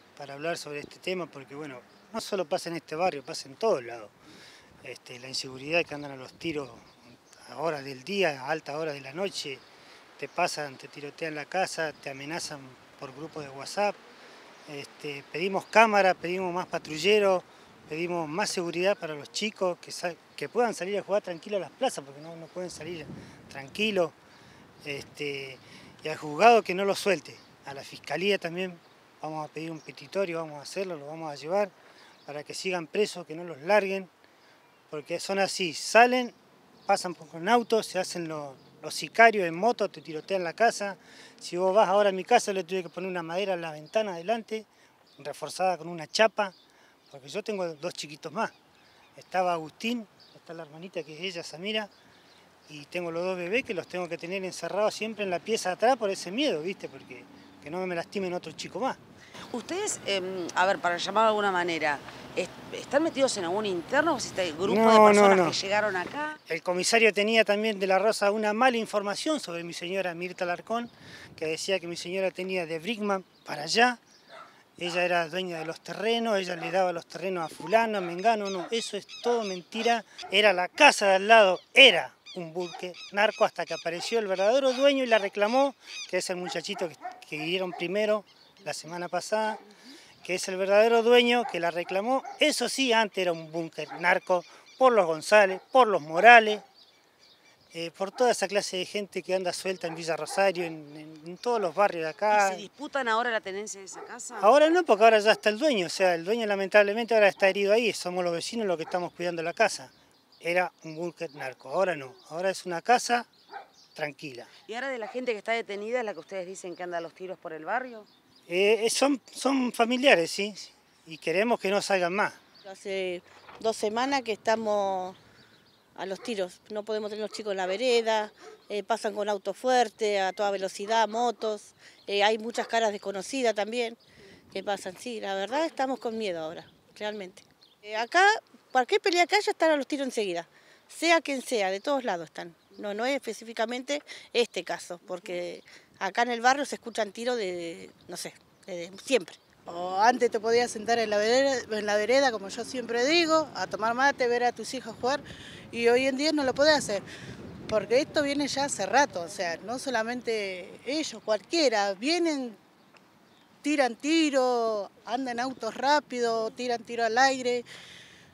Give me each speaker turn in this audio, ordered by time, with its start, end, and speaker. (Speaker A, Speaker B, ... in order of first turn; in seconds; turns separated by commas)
Speaker A: 0.1-4.1, Speaker A: 4.8-9.6, Speaker A: 10.2-14.0, Speaker A: 14.7-24.1, Speaker A: 24.8-31.7, Speaker A: 32.2-34.1, Speaker A: 34.9-36.4, Speaker A: 36.9-44.7, Speaker A: 45.2-46.5, Speaker A: 47.1-48.5, Speaker A: 49.1-51.9, Speaker A: 52.7-59.0, Speaker B: 59.5-66.4, Speaker A: 64.6-65.6, Speaker A: 66.5-74.0, Speaker A: 74.8-89.6, Speaker A: 90.2-96.6, Speaker A: 97.7-102.7, Speaker B: 102.3-104.5, Speaker A: 104.4-113.3, Speaker A: 113.9-114.5, Speaker B: 114.7-118.1, Speaker A: 118.5-122.4, Speaker C: 122.6-125.2, Speaker C: 126.0-134.0, Speaker C: 134.5-149.4, Speaker D: 149.7-157.0, Speaker D: 157.7-162.6, Speaker D: 163.6-167.7